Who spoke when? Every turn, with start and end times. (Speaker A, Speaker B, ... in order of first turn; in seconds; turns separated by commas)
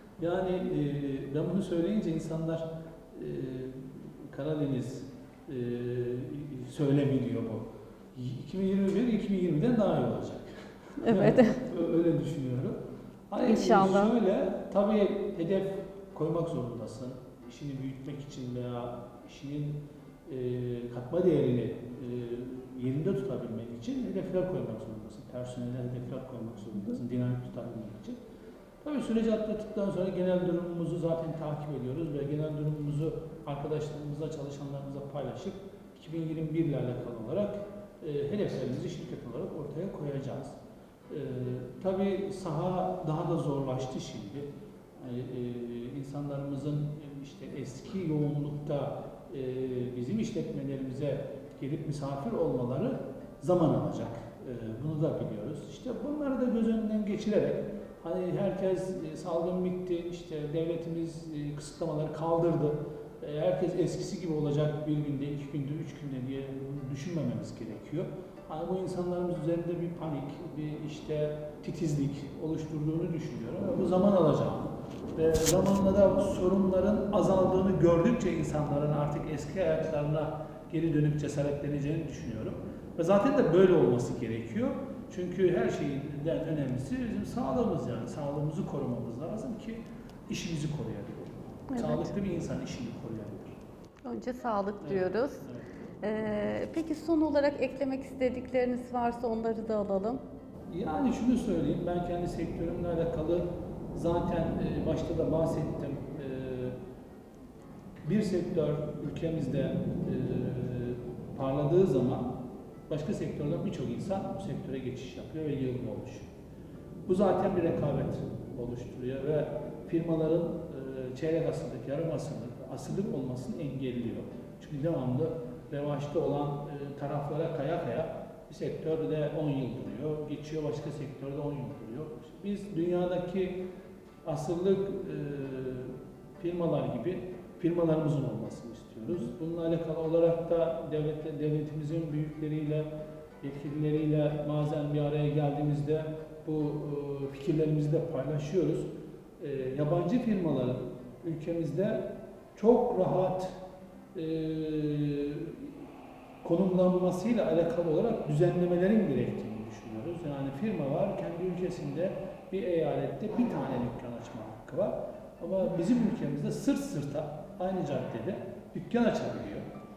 Speaker A: 0.2-10.5, Speaker B: 11.0-11.6, Speaker A: 11.0-12.8, Speaker A: 13.3-28.2, Speaker B: 13.4-14.2, Speaker A: 28.8-40.6, Speaker A: 41.1-93.6, Speaker B: 91.7-92.1, Speaker B: 94.0-95.5, Speaker A: 94.8-95.7, Speaker B: 96.0-100.2, Speaker A: 100.7-106.8, Speaker A: 108.0-112.3, Speaker A: 112.9-116.3, Speaker A: 117.1-133.6, Speaker A: 134.2-142.9, Speaker A: 143.4-148.9, Speaker A: 149.4-153.6, Speaker A: 154.1-155.8, Speaker A: 156.4-169.7